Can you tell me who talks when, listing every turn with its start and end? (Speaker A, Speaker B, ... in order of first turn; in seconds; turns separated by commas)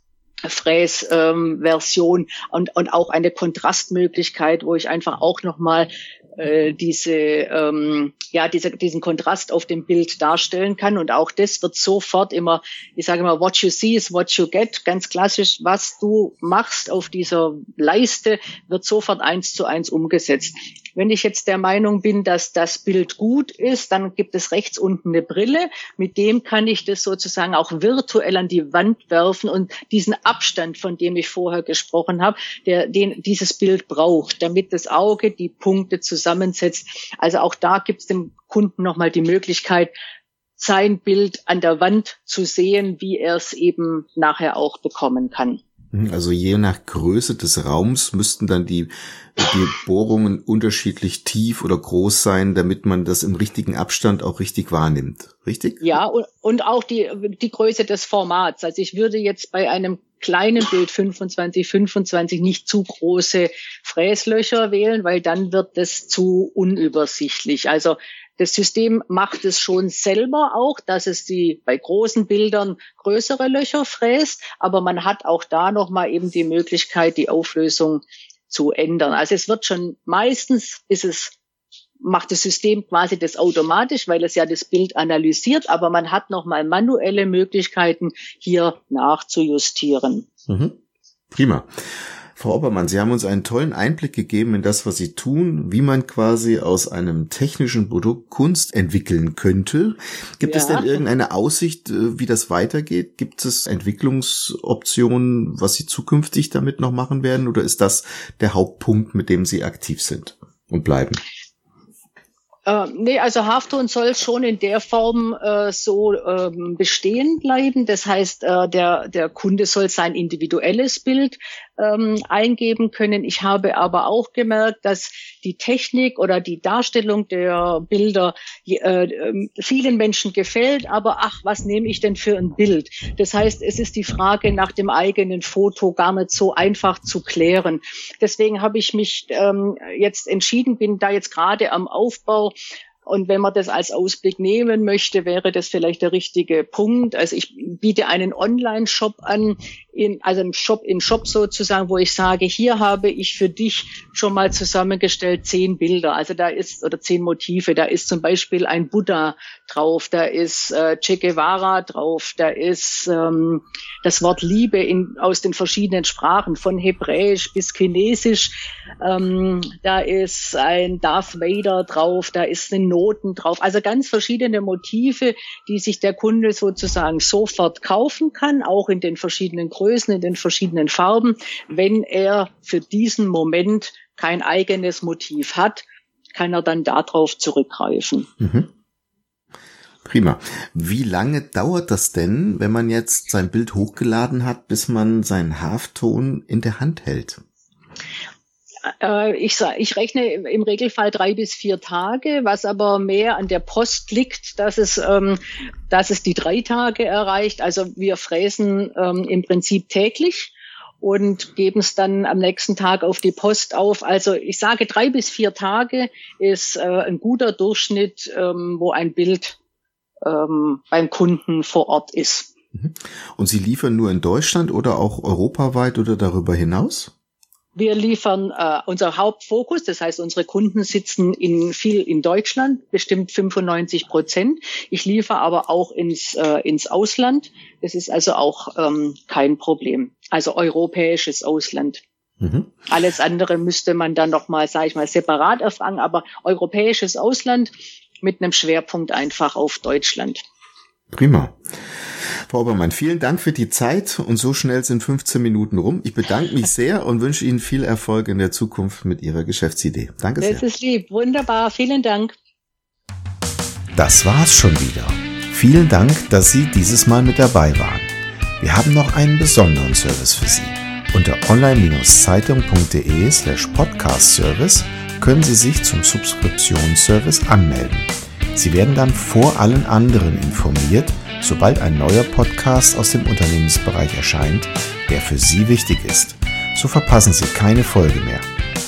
Speaker A: 0.4-39.9, Speaker A: 40.6-45.6, Speaker B: 45.9-55.9, Speaker A: 55.8-81.3, Speaker A: 82.0-90.3, Speaker B: 90.5-90.7, Speaker B: 91.3-91.7, Speaker B: 92.3-111.2, Speaker A: 100.4-101.0, Speaker A: 112.7-142.5, Speaker A: 143.1-185.8, Speaker A: 186.3-188.3, Speaker B: 188.4-188.7, Speaker B: 190.1-197.4, Speaker A: 199.0-219.6, Speaker A: 220.2-222.5, Speaker B: 222.7-227.1, Speaker A: 227.7-242.0, Speaker B: 242.4-242.7, Speaker A: 242.9-250.4, Speaker B: 251.1-251.6, Speaker B: 252.5-260.6, Speaker A: 260.4-262.4, Speaker B: 263.9-288.5